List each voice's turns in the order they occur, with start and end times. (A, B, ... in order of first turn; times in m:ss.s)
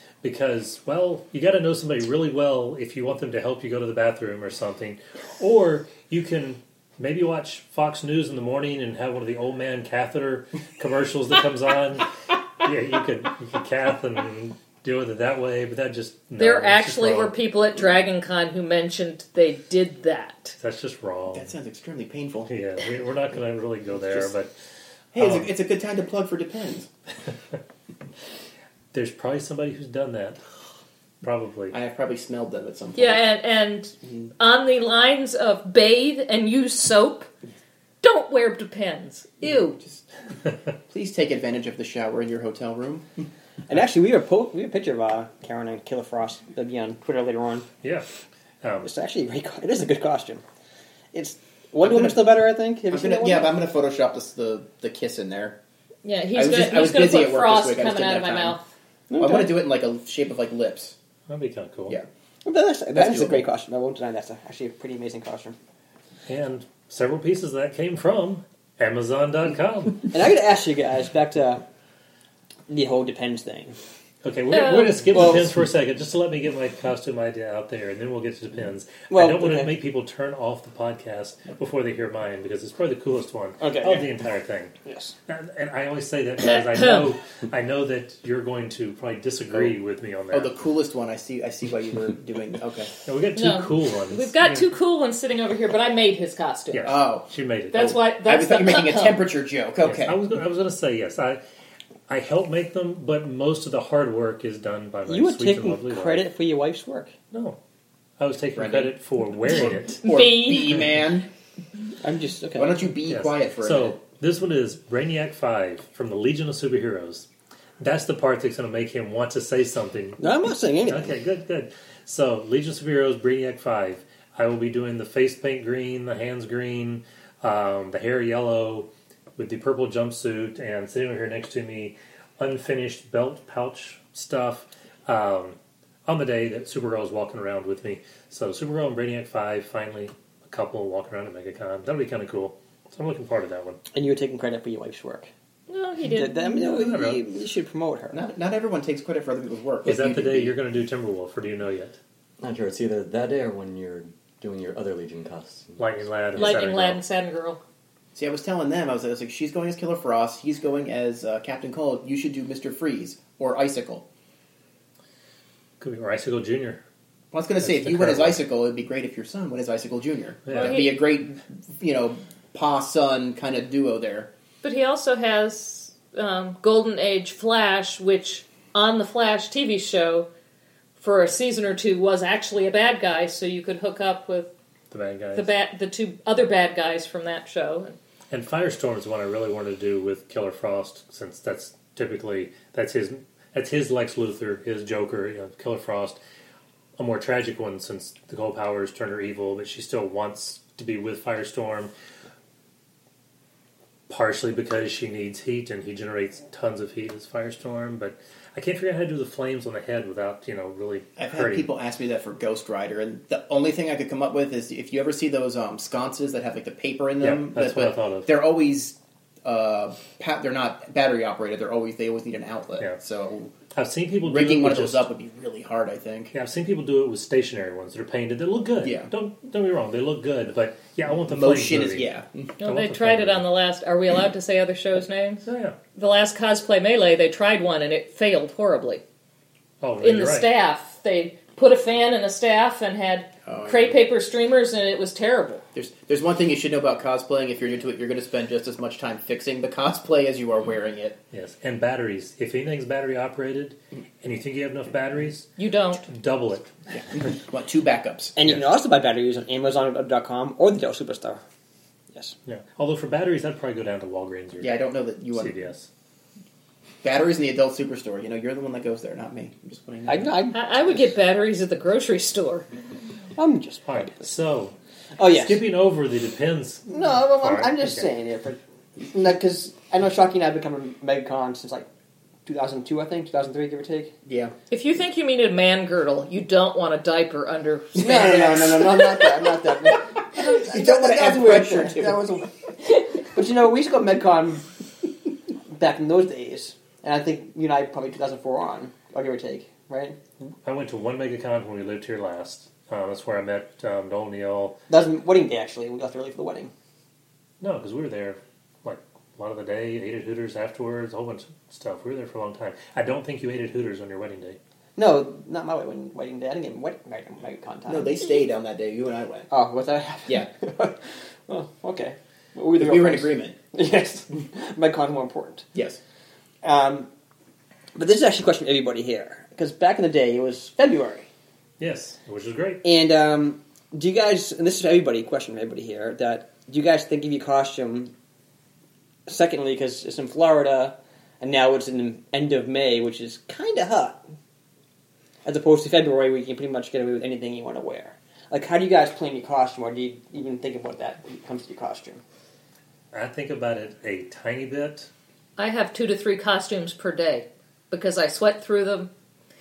0:00.2-0:12.1 A
0:12.6-0:17.3 A
0:16.4-0:20.6 B
0:20.6-0:21.5 A
0:21.3-0:22.5 C
0:22.5-0:24.5 A
0:23.9-0:24.3 C
0:25.1-0:26.9 C
0:25.2-0:25.5 A
0:28.9-0:30.4 A
0:31.2-0:31.8 A
0:31.7-0:33.3 C
0:33.0-0:37.3 B
0:38.0-0:39.8 B
0:39.4-0:40.0 C
0:40.9-0:43.1 C
0:43.7-0:47.7 D
0:48.6-0:48.9 A
0:48.8-0:50.4 D
0:51.1-0:53.5 D
0:51.8-0:52.3 C
0:52.9-0:55.6 C
0:56.0-0:58.7 B
0:56.3-0:58.6 C
0:59.1-0:59.6 D
0:59.2-1:00.9 C
1:01.3-1:02.0 A
1:02.4-1:05.6 D
1:02.9-1:03.4 C
1:06.3-1:10.1 A
1:10.1-1:11.6 D
1:12.7-1:13.8 D
1:14.2-1:24.7 A
1:14.5-1:15.0 B
1:15.1-1:15.5 D
1:19.1-1:19.7 D
1:23.6-1:24.1 D
1:24.8-1:25.1 D
1:25.3-1:30.5 A
1:26.5-1:26.8 B
1:30.3-1:32.9 C
1:33.0-1:34.7 A
1:33.3-1:36.9 B
1:36.7-1:38.0 A
1:36.8-1:37.3 C
1:37.7-1:39.2 B
1:37.8-1:40.2 C
1:39.8-1:41.4 A
1:42.1-1:46.2 A
1:45.1-1:47.1 D
1:47.3-1:47.6 A
1:48.2-1:50.0 A
1:48.6-1:48.9 C
1:49.4-1:51.3 C
1:50.0-1:50.8 B
1:52.0-1:52.9 D
1:52.6-1:54.0 C
1:53.1-1:57.3 A
1:57.8-2:00.2 A
2:00.2-2:01.1 D
2:00.8-2:23.8 A
2:23.9-2:25.3 D
2:25.7-2:26.8 B
2:26.0-2:28.2 D
2:26.6-2:27.2 A
2:28.1-2:30.5 C
2:29.8-2:32.0 A
2:32.4-2:36.0 E
2:35.8-2:37.0 A
2:36.4-2:37.6 B
2:38.1-2:44.0 C
2:45.8-2:46.8 A
2:47.3-2:54.3 C
2:47.6-2:48.4 A
2:50.5-2:50.8 A
2:50.5-2:51.0 B
2:54.6-3:00.3 B
3:01.0-3:04.5 B
3:04.9-3:05.5 A
3:05.3-3:08.0 B
3:08.3-3:16.2 A
3:17.0-3:21.9 A
3:24.1-3:31.7 A
3:31.2-3:43.5 C
3:37.2-3:38.3 A
3:43.7-3:45.1 A
3:44.2-3:46.3 C
3:46.3-3:52.1 A
3:48.8-3:49.1 C
3:51.3-3:52.5 C
3:52.6-3:59.0 B
3:52.6-3:53.4 A
3:55.4-3:55.8 A
3:59.8-4:00.5 A
4:00.0-4:05.6 B
4:03.4-4:04.0 C
4:05.7-4:11.2 C
4:11.3-4:15.5 A
4:15.6-4:16.0 B
4:16.0-4:16.7 A
4:16.9-4:18.3 C
4:18.4-4:21.4 D
4:22.4-4:24.8 A
4:24.6-4:25.5 C
4:25.3-4:25.9 A
4:27.0-4:30.4 C
4:30.0-4:31.1 D
4:30.5-4:32.7 B
4:33.4-4:34.3 D
4:33.9-4:34.7 A
4:35.2-4:35.6 D
4:35.3-4:38.0 A
4:36.9-4:41.9 D
4:42.4-4:44.1 D
4:44.2-4:44.5 C
4:44.7-4:49.3 B
4:47.9-4:52.6 D
4:50.5-4:52.2 C
4:53.1-4:54.7 D
4:55.7-5:00.2 D
5:00.6-5:04.8 A
5:04.9-5:06.7 D
5:07.6-5:14.6 A
5:15.0-5:18.2 D
5:17.9-5:19.5 C
5:19.5-5:25.6 D
5:22.8-5:23.6 C
5:25.7-5:26.0 C
5:26.6-5:27.1 D
5:27.9-5:31.3 D
5:31.8-5:32.8 A
5:32.8-5:38.1 D
5:39.3-5:44.2 D
5:45.4-5:52.2 D
5:53.1-5:55.1 A
5:55.6-5:59.1 B